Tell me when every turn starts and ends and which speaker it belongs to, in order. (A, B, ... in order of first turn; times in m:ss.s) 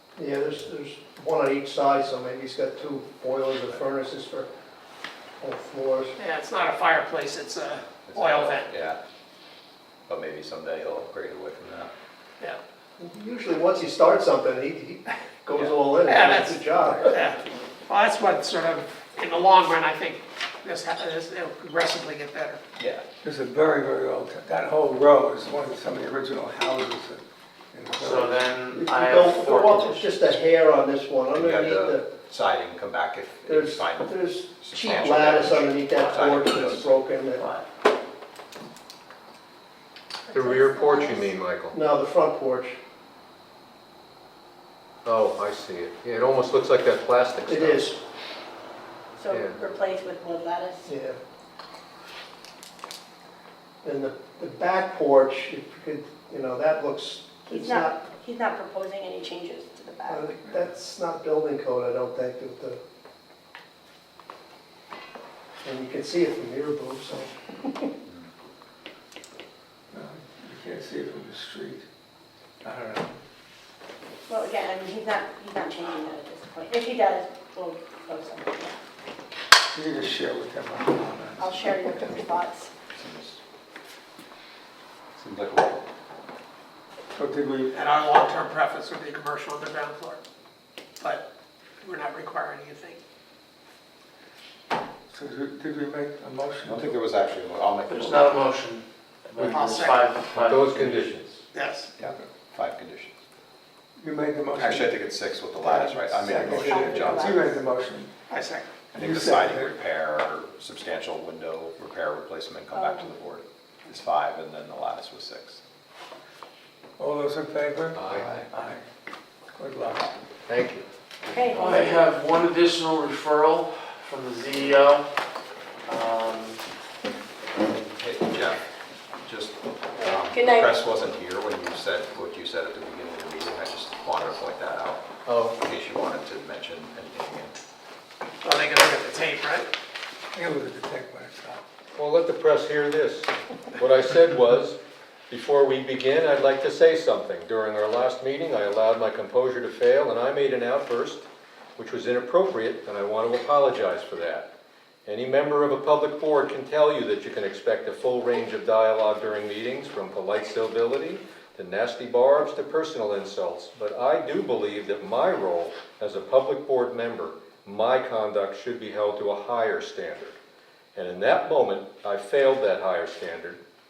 0:00.2-0:04.5 A
0:05.4-0:06.2 A
0:06.2-0:08.7 B
0:08.0-0:09.0 C
0:10.1-0:11.9 C
0:13.0-0:17.2 A
0:16.1-0:22.6 B
0:22.8-0:23.0 C
0:23.2-0:28.4 D
0:28.0-0:30.1 E
0:28.7-0:32.1 A
0:31.3-0:36.9 C
0:33.5-0:37.5 A
0:36.0-0:36.4 E
0:37.4-0:37.6 E
0:40.3-0:41.3 F
0:40.3-0:41.8 G
0:41.7-0:42.8 A
0:45.0-0:47.9 G
0:47.5-0:48.0 A
0:49.2-0:50.9 F
0:49.3-0:49.6 G
0:50.8-0:51.2 A
0:53.8-0:58.0 A
0:57.5-1:00.3 F
1:00.1-1:02.8 A
1:05.6-1:07.3 A
1:09.9-1:11.8 D
1:12.6-1:13.1 D
1:14.3-1:18.8 F
1:19.6-1:21.9 D
1:21.4-1:22.7 F
1:22.9-1:23.4 C
1:25.2-1:25.9 C
1:27.2-1:27.8 D
1:27.7-1:30.2 B
1:31.0-1:31.3 B
1:31.8-1:33.0 B
1:35.1-1:37.0 D
1:36.6-1:38.4 C
1:37.9-1:41.3 E
1:39.5-1:40.1 B
1:40.3-1:41.4 G
1:41.5-1:41.9 B
1:42.0-1:43.2 C
1:44.0-1:45.0 D
1:44.6-1:47.5 C
1:45.6-1:48.1 D
1:46.5-1:47.6 F
1:48.3-1:48.7 B
1:48.9-1:55.6 C
1:49.0-1:49.7 D
1:52.7-1:53.1 F
1:57.0-1:58.8 D
1:57.9-1:58.5 G
1:59.6-2:00.1 D
2:00.5-2:00.8 G
2:01.3-2:02.0 F
2:01.5-2:05.1 E
2:05.9-2:06.6 E
2:07.6-2:08.6 C
2:09.2-2:15.0 C
2:10.0-2:10.7 F
2:15.3-2:15.6 G
2:15.6-2:17.6 C
2:18.4-2:19.7 B
2:20.3-2:21.6 D
2:22.0-2:31.2 G
2:31.8-2:34.5 G
2:35.1-2:50.4 G
2:51.0-2:53.6 G